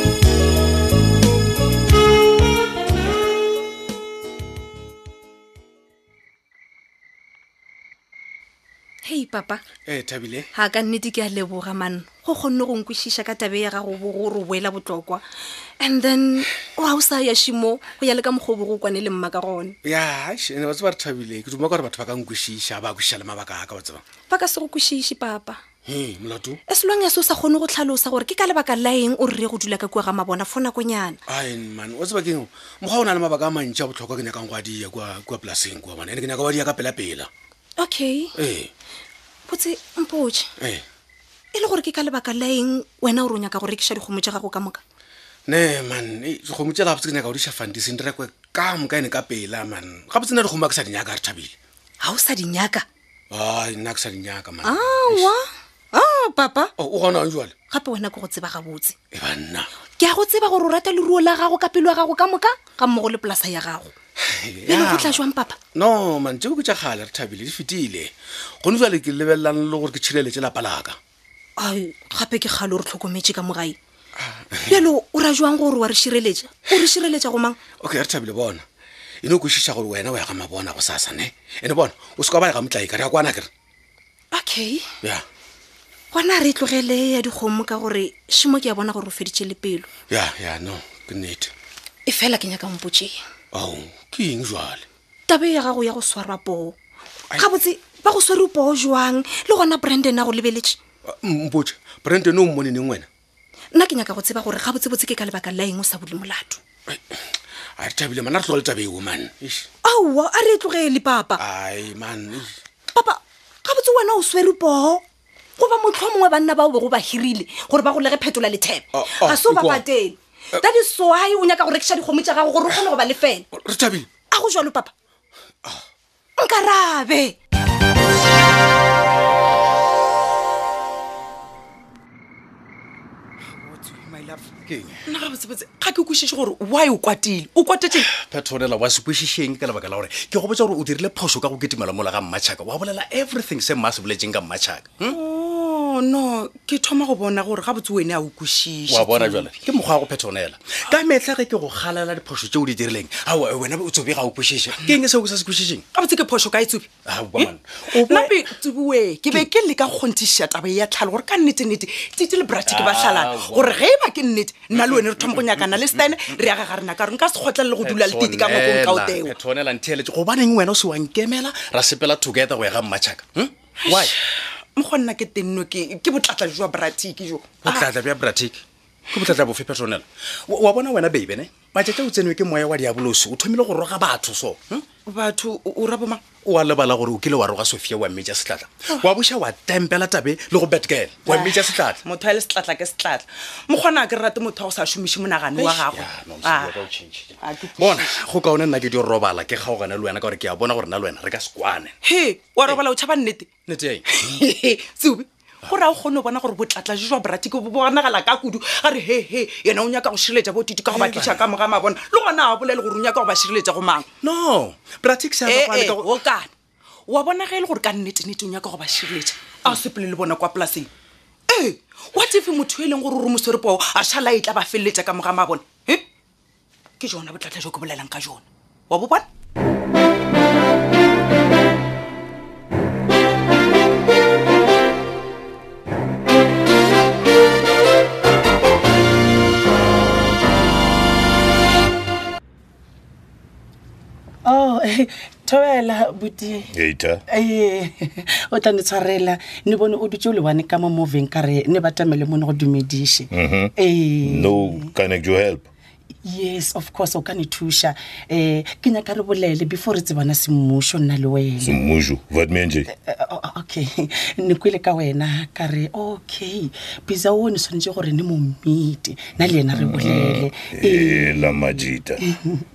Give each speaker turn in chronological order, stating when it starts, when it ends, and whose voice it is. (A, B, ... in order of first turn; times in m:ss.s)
0:09.0-0:09.6 A
0:09.9-0:10.5 B
0:10.5-0:15.2 A
0:15.8-0:19.7 A
0:19.8-0:24.0 B
0:24.3-0:25.6 A
0:25.9-0:26.6 B
0:26.7-0:31.2 A
0:31.3-0:37.3 B
0:37.8-0:38.3 A
0:38.4-0:38.7 B
0:39.5-0:40.5 A
0:40.6-0:40.8 B
0:41.5-0:44.8 A
0:45.5-0:51.5 B
0:52.0-0:52.8 A
0:53.3-0:55.3 B
0:54.6-0:56.7 A
0:56.8-0:57.5 B
0:57.7-0:58.9 A
0:59.1-0:59.7 B
1:00.0-1:03.9 A
1:04.2-1:11.0 B
1:04.7-1:05.6 A
1:11.6-1:13.8 A
1:14.2-1:14.8 B
1:14.7-1:17.6 A
1:17.8-1:18.6 B
1:19.2-1:23.5 B
1:24.3-1:24.8 A
1:26.1-1:29.9 A
1:30.1-1:31.5 B
1:32.1-1:33.2 A
1:33.5-1:34.9 B
1:35.3-1:36.8 A
1:37.3-1:40.8 A
1:41.1-1:43.1 B
1:43.7-1:46.6 A
1:46.9-1:47.2 B
1:47.8-1:49.7 B
1:49.8-1:51.4 A
1:51.4-1:52.6 B
1:52.9-1:55.0 A
1:55.6-2:03.4 A
1:58.9-1:59.8 B
2:03.5-2:04.1 B
2:04.2-2:04.9 A
2:06.4-2:07.4 A
2:13.6-2:14.5 C
2:14.6-2:15.0 D
2:15.0-2:18.1 C
2:18.0-2:25.2 D
2:25.1-2:29.6 C
2:28.9-2:35.9 D
2:35.9-2:49.3 C
2:37.0-2:38.6 D
2:42.7-2:43.9 D
2:44.8-2:46.3 D
2:47.8-2:54.2 D
2:53.8-2:54.2 C
2:54.8-2:57.9 C
2:57.6-3:04.8 D
3:05.1-3:06.2 C
3:06.4-3:12.0 D
3:11.2-3:16.8 C
3:15.5-3:21.9 D
3:17.4-3:18.1 C
3:22.0-3:23.6 C
3:23.6-3:24.1 D
3:24.1-3:34.1 C
3:30.9-3:31.5 D
3:34.2-3:36.2 D
3:35.4-3:36.5 C
3:37.1-3:40.9 C
3:41.5-3:46.0 C
3:47.0-3:49.3 C
4:04.4-4:06.7 E
4:06.7-4:07.2 F
4:07.3-4:14.9 E
4:13.3-4:15.7 F
4:16.2-4:21.8 E
4:21.6-4:22.9 F
4:22.9-4:32.4 E
4:29.4-4:32.2 F